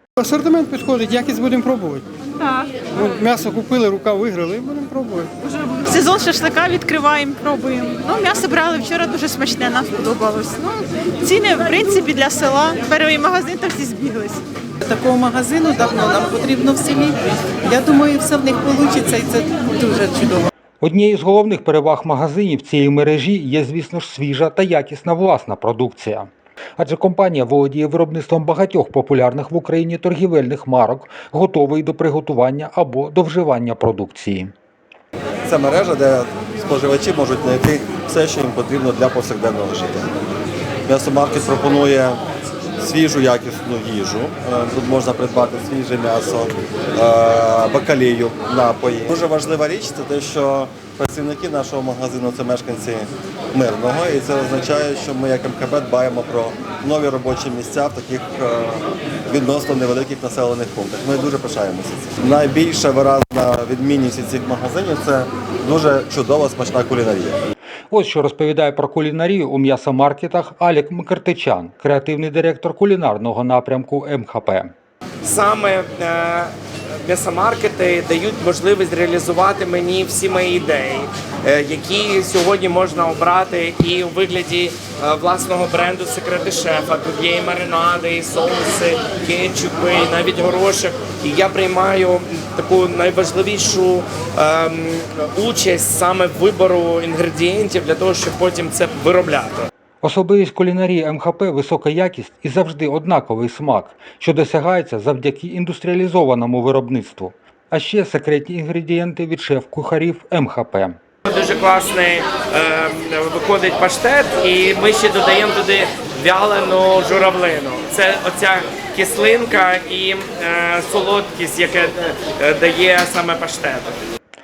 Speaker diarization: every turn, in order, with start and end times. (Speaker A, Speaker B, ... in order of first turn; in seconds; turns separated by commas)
Speaker A: 0.2-2.1, Speaker A: 2.6-5.7, Speaker B: 5.8-14.3, Speaker C: 14.9-17.1, Speaker B: 16.1-16.4, Speaker C: 17.7-20.5, Speaker D: 20.8-34.5, Speaker E: 35.4-40.1, Speaker E: 40.9-42.2, Speaker E: 42.8-67.4, Speaker D: 67.9-74.7, Speaker F: 75.2-76.5, Speaker F: 77.0-99.7, Speaker D: 100.0-111.0, Speaker F: 111.3-124.0